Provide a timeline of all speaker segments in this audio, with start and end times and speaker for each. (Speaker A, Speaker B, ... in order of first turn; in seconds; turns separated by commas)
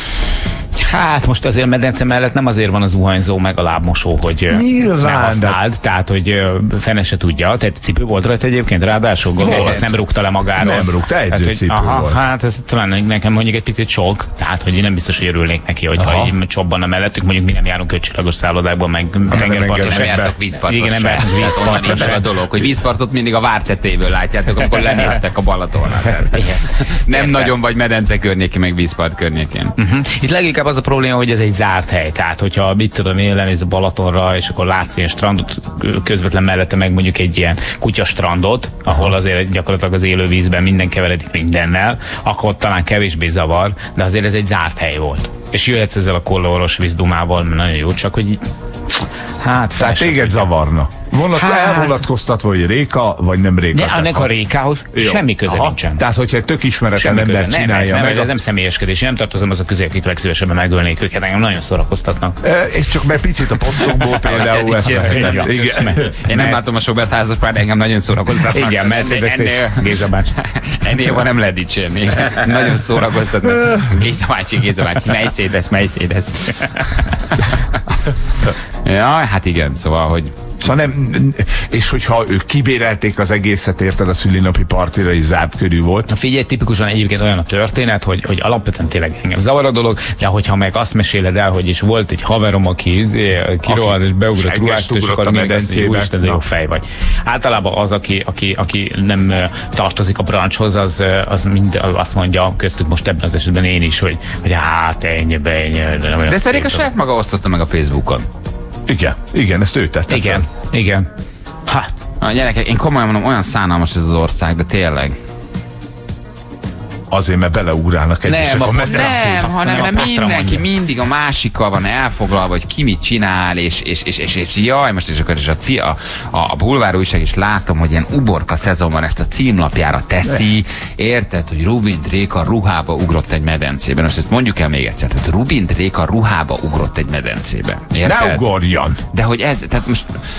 Speaker A: 0.8-22.2, Speaker B: 4.5-5.6, Speaker B: 9.4-10.0, Speaker B: 10.6-12.2, Speaker B: 16.0-16.3, Speaker B: 19.3-20.4, Speaker C: 19.8-29.8, Speaker B: 21.3-22.3, Speaker B: 26.1-26.5, Speaker A: 27.1-27.5, Speaker A: 29.8-48.4, Speaker A: 49.4-50.5, Speaker B: 49.8-54.3, Speaker A: 51.4-51.9, Speaker A: 53.7-56.0, Speaker B: 54.9-58.3, Speaker A: 57.0-62.4, Speaker B: 62.4-66.1, Speaker C: 64.0-77.8, Speaker A: 64.8-66.6, Speaker A: 68.3-70.3, Speaker C: 78.8-80.3, Speaker B: 80.6-86.1, Speaker A: 86.1-106.9, Speaker B: 93.7-96.4, Speaker C: 106.3-108.3, Speaker B: 108.9-110.5, Speaker A: 110.1-111.1, Speaker C: 112.2-115.2, Speaker B: 117.1-119.5, Speaker A: 118.3-120.6, Speaker C: 118.8-138.4, Speaker B: 138.0-139.0, Speaker C: 139.1-140.2